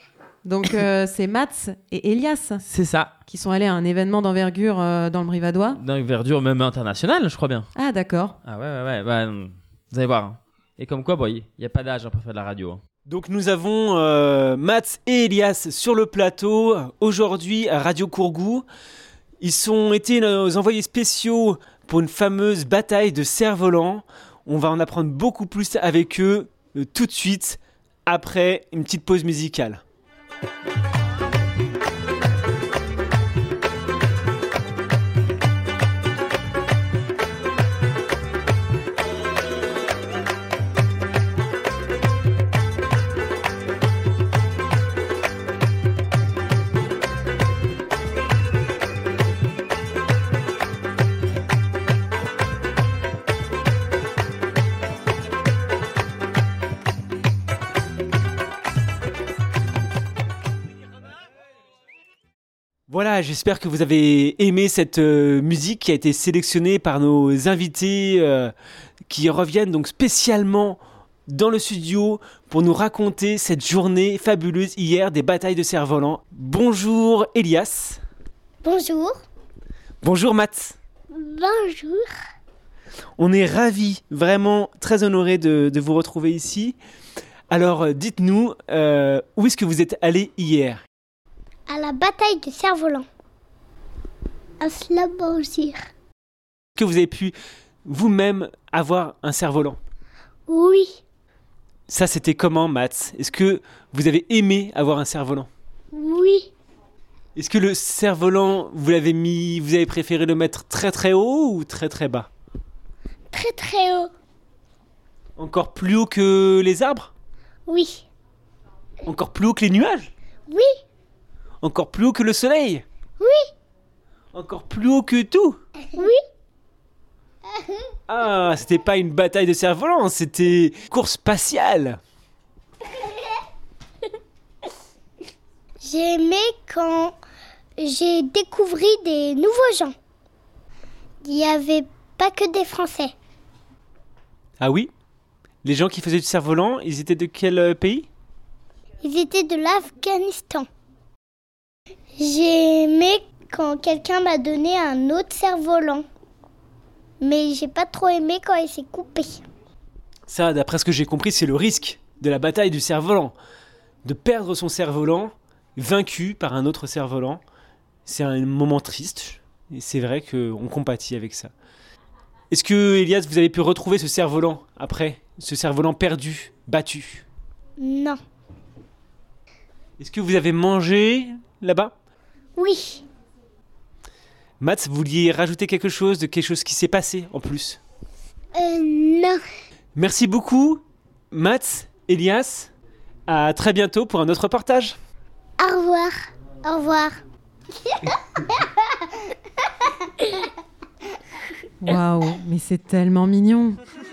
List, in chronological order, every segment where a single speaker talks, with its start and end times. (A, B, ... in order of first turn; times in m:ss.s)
0:00.4-0:02.6 A
0:02.7-0:03.1 B
0:03.2-0:05.8 A
0:05.8-0:07.7 B
0:07.8-0:08.4 A
0:08.4-0:12.8 B
0:13.1-0:18.7 C
0:19.4-0:29.8 C
1:02.9-1:08.5 C
1:09.1-1:18.0 C
1:18.6-1:19.1 D
1:20.0-1:20.8 C
1:21.1-1:22.1 D
1:23.2-1:26.8 C
1:27.5-1:30.8 C
1:31.7-1:33.1 D
1:34.6-1:35.8 D
1:36.8-1:39.8 C
1:40.5-1:41.0 D
1:41.9-1:45.5 C
1:45.9-1:46.5 D
1:47.4-1:52.3 C
1:53.3-1:54.1 D
1:55.4-1:57.1 C
1:57.7-1:58.1 D
1:59.1-2:00.1 C
2:01.6-2:02.8 C
2:03.2-2:03.4 D
2:04.3-2:05.6 C
2:05.9-2:06.2 D
2:08.1-2:12.0 C
2:15.8-2:17.2 D
2:17.8-2:19.9 D
2:21.2-2:23.1 D
2:24.6-2:24.9 C
2:25.6-2:28.1 C
2:29.0-2:30.7 D
2:32.2-2:36.0 D
2:37.2-2:39.4 D
2:40.3-2:43.4 C
2:44.0-2:47.4 C
2:48.1-2:51.5 C
2:52.5-2:57.2 C
2:57.8-2:58.2 D
3:00.0-3:01.9 C
3:02.6-3:03.0 D
3:04.6-3:07.8 C
3:08.6-3:09.4 D
3:10.0-3:10.8 C
3:11.3-3:12.7 C
3:13.3-3:15.0 C
3:15.6-3:17.2 D
3:20.2-3:20.5 D
3:21.8-3:23.8 A